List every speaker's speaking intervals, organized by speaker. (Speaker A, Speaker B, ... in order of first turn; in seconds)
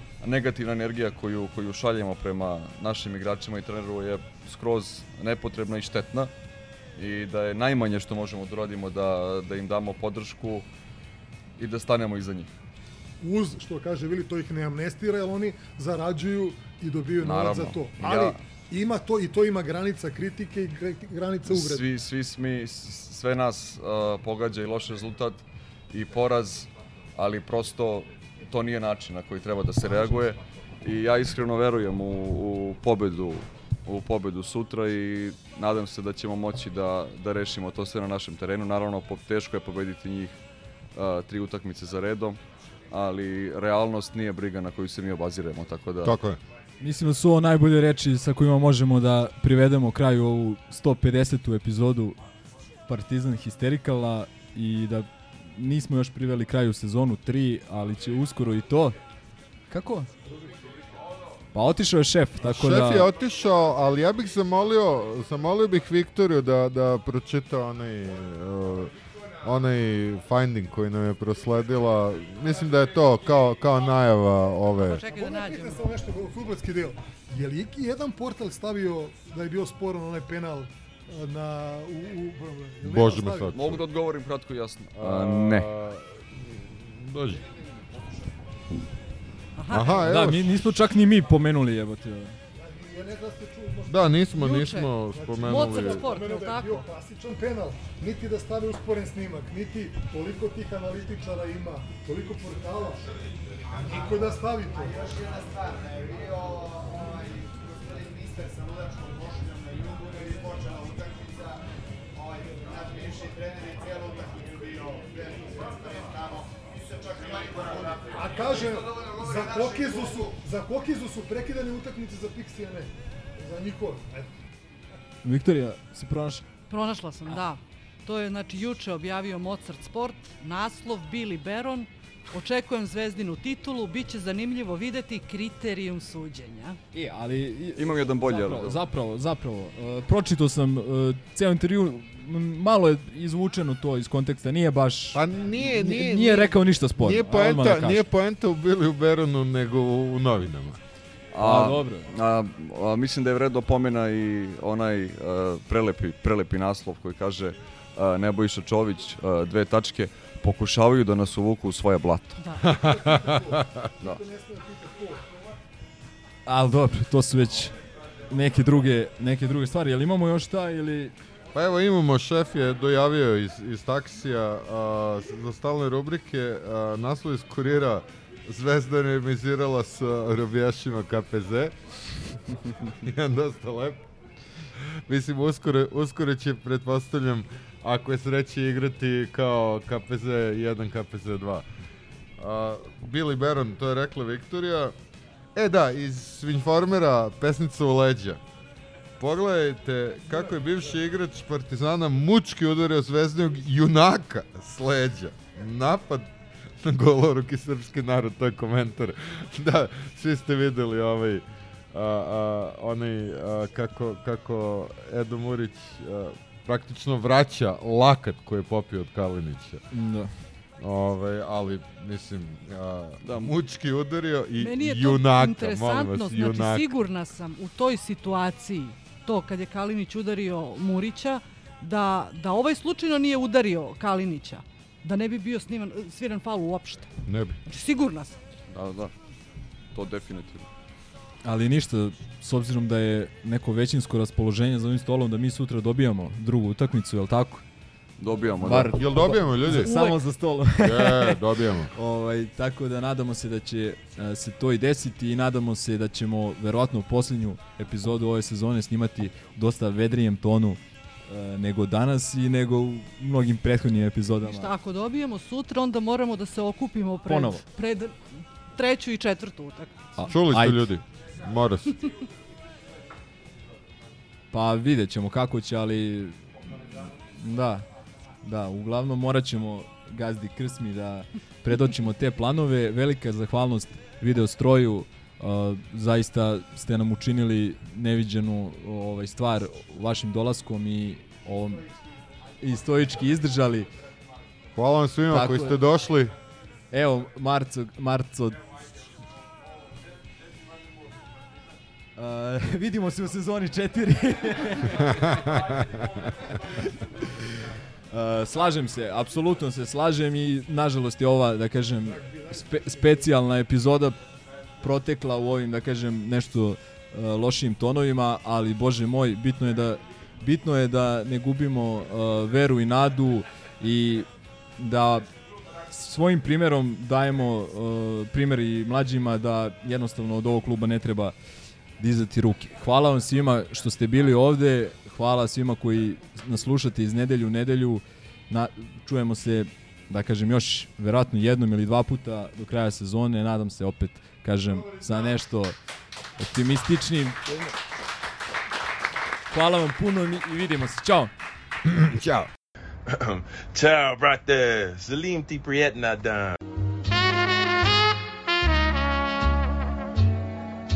Speaker A: 0.2-6.3, 7.0-10.7, 11.6-12.5, 17.2-18.4, 21.4-40.4, 40.9-42.4, 42.9-46.2, 83.5-85.7, 137.8-138.8, 151.3-162.4, 223.2-223.5, 238.7-239.1, 239.9-240.7, 248.2-249.2
Speaker B: 13.2-21.9, 75.1-83.5, 92.5-94.1, 95.1-103.0, 103.7-105.1, 118.1-124.3, 162.8-165.2, 312.0-313.3
Speaker C: 46.0-46.4, 62.4-75.0, 82.8-83.9, 84.9-87.4, 89.7-90.8, 93.9-96.1, 145.1-150.8, 162.6-163.9, 171.5-184.0, 185.1-191.6, 192.4-194.9, 195.5-198.4, 199.2-219.8, 220.8-226.9, 237.2-237.6, 248.7-249.9, 250.8-251.9, 270.2-272.0, 294.7-296.3, 305.1-306.0, 351.9-352.5
Speaker D: 46.8-52.2, 52.9-59.0, 59.7-60.1, 61.5-63.1, 90.0-92.4, 125.2-126.5, 136.9-148.1, 151.4-152.1, 166.4-167.8, 168.3-171.1, 219.9-220.3, 241.4-247.6, 248.6-264.7, 267.2-267.6, 270.1-270.9, 274.5-276.4, 277.3-277.9, 278.4-291.8, 292.6-293.9, 295.3-295.8, 296.9-298.6, 302.1-305.5, 306.6-307.4, 308.1-314.2, 314.8-324.3, 324.8-325.3, 325.9-331.3, 332.0-345.7, 346.4-347.7, 349.5-351.3
Speaker E: 74.7-75.8, 89.5-90.1, 94.4-96.8, 126.7-136.8, 162.4-162.8, 224.6-237.1, 237.7-238.3, 249.7-250.2, 264.4-270.1
Speaker F: 104.8-111.6, 112.1-120.2
Speaker G: 353.7-356.5